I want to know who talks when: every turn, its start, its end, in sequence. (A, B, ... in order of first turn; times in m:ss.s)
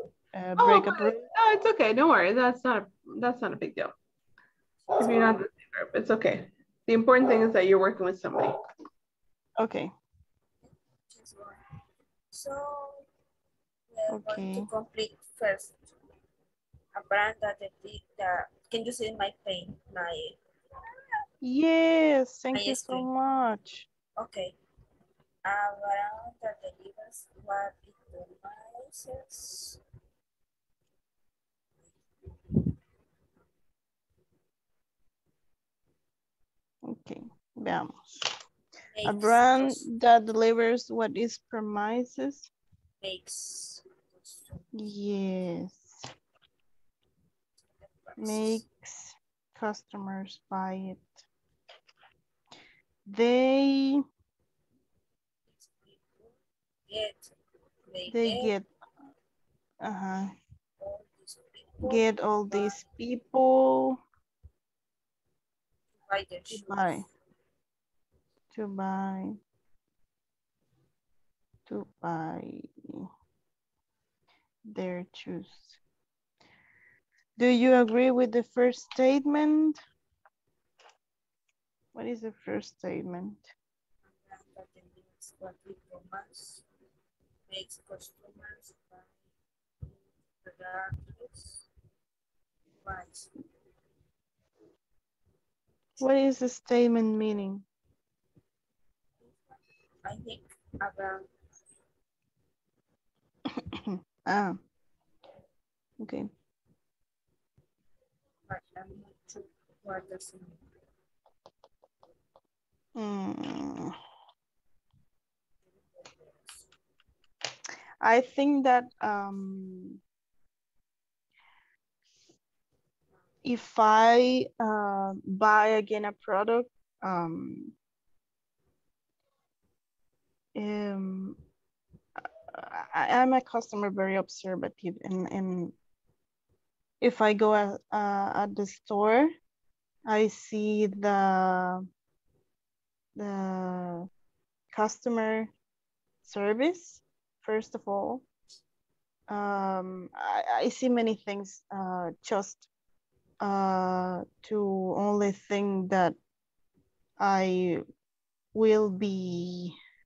0:00.3-0:01.2 A
0:00.6-0:03.9 B
0:05.0-0:08.5 B
0:09.6-0:09.9 A
0:11.1-0:11.6 C
0:12.3-0:13.1 C
0:13.9-0:15.9 C
0:14.1-0:14.7 A
0:16.9-0:20.4 C
0:21.4-0:23.9 A
0:22.5-0:23.1 C
0:24.2-0:24.6 C
0:25.4-0:29.8 C
0:36.8-0:38.0 A
0:39.0-0:39.8 C
0:39.1-0:42.5 A
0:43.0-0:44.7 C
0:44.8-0:46.1 A
0:47.8-0:48.6 C
0:48.2-0:51.1 A
0:53.1-0:54.0 A
0:55.5-0:56.3 C
0:56.9-0:57.3 C
0:57.9-0:58.6 C
0:58.1-0:58.7 A
0:59.8-1:00.3 A
1:00.8-1:02.9 C
1:01.9-1:04.0 A
1:06.1-1:07.1 C
1:06.5-1:07.1 A
1:08.5-1:09.4 A
1:11.7-1:13.1 A
1:14.7-1:15.8 A
1:17.4-1:19.8 A
1:22.0-1:23.5 A
1:24.1-1:26.6 C
1:27.5-1:29.1 C
1:29.8-1:31.6 C
1:32.8-1:33.3 C
1:36.0-1:37.6 A
1:40.0-1:41.3 C
1:43.5-1:44.6 A
1:46.0-1:46.3 A
1:48.5-1:50.6 C
1:53.0-1:54.0 A
1:58.0-2:00.0 A
2:03.4-2:07.7 A
2:10.6-2:11.4 A
2:12.5-2:15.7 A
2:17.0-2:19.3 A
2:20.1-2:21.9 A
2:23.2-2:24.1 A
2:24.7-2:25.5 A
2:26.3-2:28.2 A
2:29.3-2:32.7 A
2:33.4-2:36.2 A
2:37.2-2:37.8 A
2:38.5-2:39.8 A